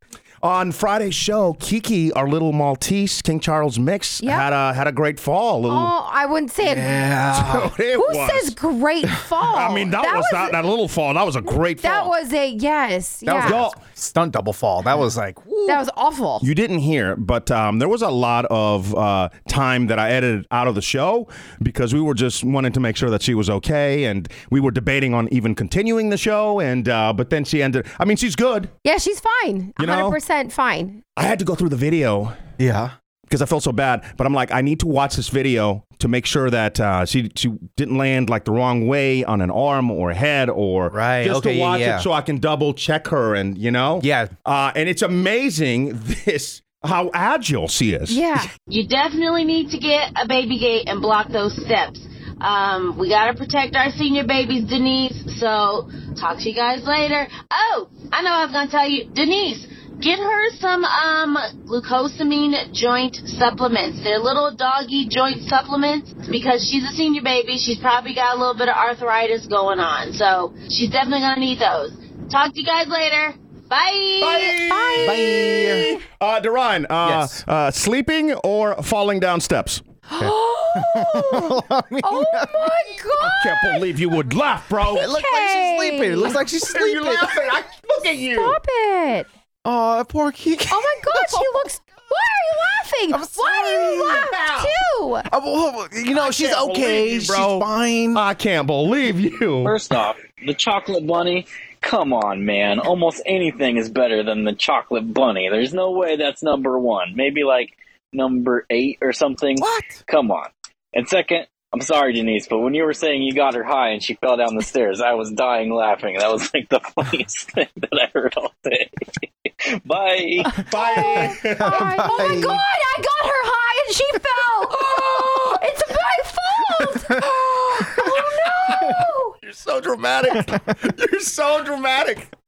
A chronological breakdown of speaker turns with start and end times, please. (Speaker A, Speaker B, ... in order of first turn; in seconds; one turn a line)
Speaker A: 0.4-5.9
Speaker B: 4.2-4.5
Speaker B: 5.7-7.0
Speaker C: 6.6-7.7
Speaker A: 7.3-8.5
Speaker B: 8.0-10.6
Speaker A: 9.5-12.1
Speaker B: 11.8-13.6
Speaker C: 13.3-15.8
Speaker A: 13.3-13.8
Speaker B: 15.7-16.4
Speaker A: 16.4-28.7
Speaker B: 28.8-31.0
Speaker A: 29.8-30.2
Speaker A: 31.1-32.4
Speaker C: 32.6-32.9
Speaker A: 33.3-48.2
Speaker C: 40.9-42.1
Speaker C: 44.0-44.3
Speaker B: 48.1-48.5
Speaker D: 48.7-74.6
Speaker A: 74.2-79.8
Speaker B: 74.7-76.0
Speaker C: 75.0-76.0
Speaker C: 77.0-77.4
Speaker B: 80.1-83.8
Speaker C: 80.2-82.8
Speaker A: 83.2-85.1
Speaker B: 84.8-86.4
Speaker C: 84.9-87.4
Speaker A: 86.6-88.6
Speaker B: 88.3-89.3
Speaker C: 89.6-91.6
Speaker B: 90.7-95.3
Speaker C: 93.1-94.3
Speaker A: 93.9-94.7
Speaker C: 95.3-98.2
Speaker A: 96.1-99.7
Speaker E: 99.6-118.9
Speaker C: 109.6-110.0
Speaker E: 119.8-120.6
Speaker A: 120.6-122.0
Speaker B: 120.8-129.3
Speaker C: 121.6-122.6
Speaker A: 129.4-132.3